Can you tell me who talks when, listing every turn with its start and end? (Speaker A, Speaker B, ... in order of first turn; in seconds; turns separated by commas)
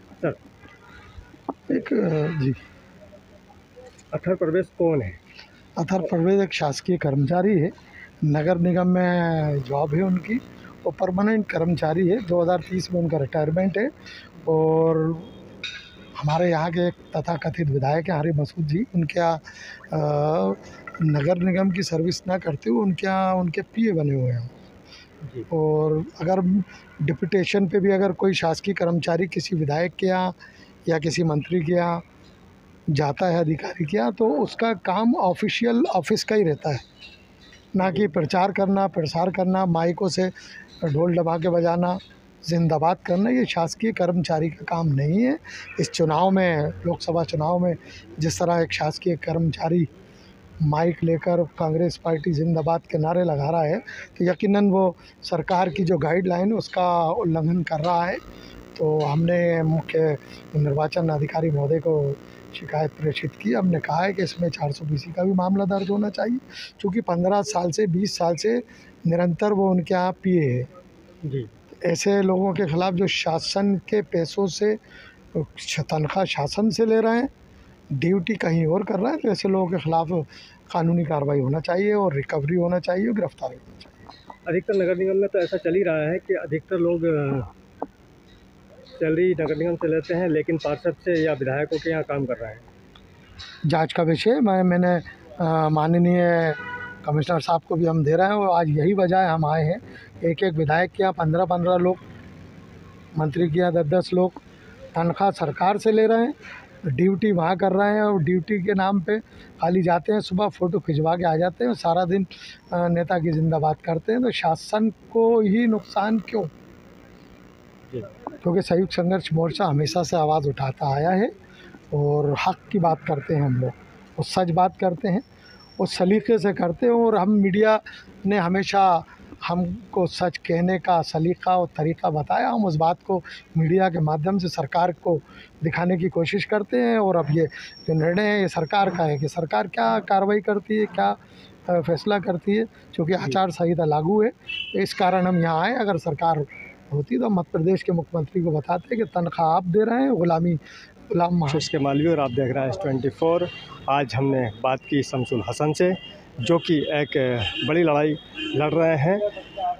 Speaker A: 1.7-2.6, Speaker B: 4.1-5.2, Speaker A: 5.8-7.7, Speaker A: 8.2-13.9, Speaker A: 14.4-15.3, Speaker A: 16.2-24.5, Speaker B: 25.2-25.5, Speaker A: 25.5-30.3, Speaker A: 30.9-32.0, Speaker A: 32.9-36.8, Speaker A: 37.7-49.9, Speaker A: 50.6-58.2, Speaker A: 58.7-70.7, Speaker B: 71.2-71.5, Speaker A: 71.7-74.8, Speaker A: 75.3-77.3, Speaker A: 77.9-83.9, Speaker B: 84.5-87.5, Speaker B: 88.9-92.6, Speaker A: 93.7-102.0, Speaker A: 103.2-104.4, Speaker A: 104.9-106.3, Speaker A: 106.9-116.5, Speaker A: 118.4-121.3, Speaker A: 121.9-125.2, Speaker A: 125.8-150.6, Speaker A: 151.1-151.7, Speaker B: 151.5-159.3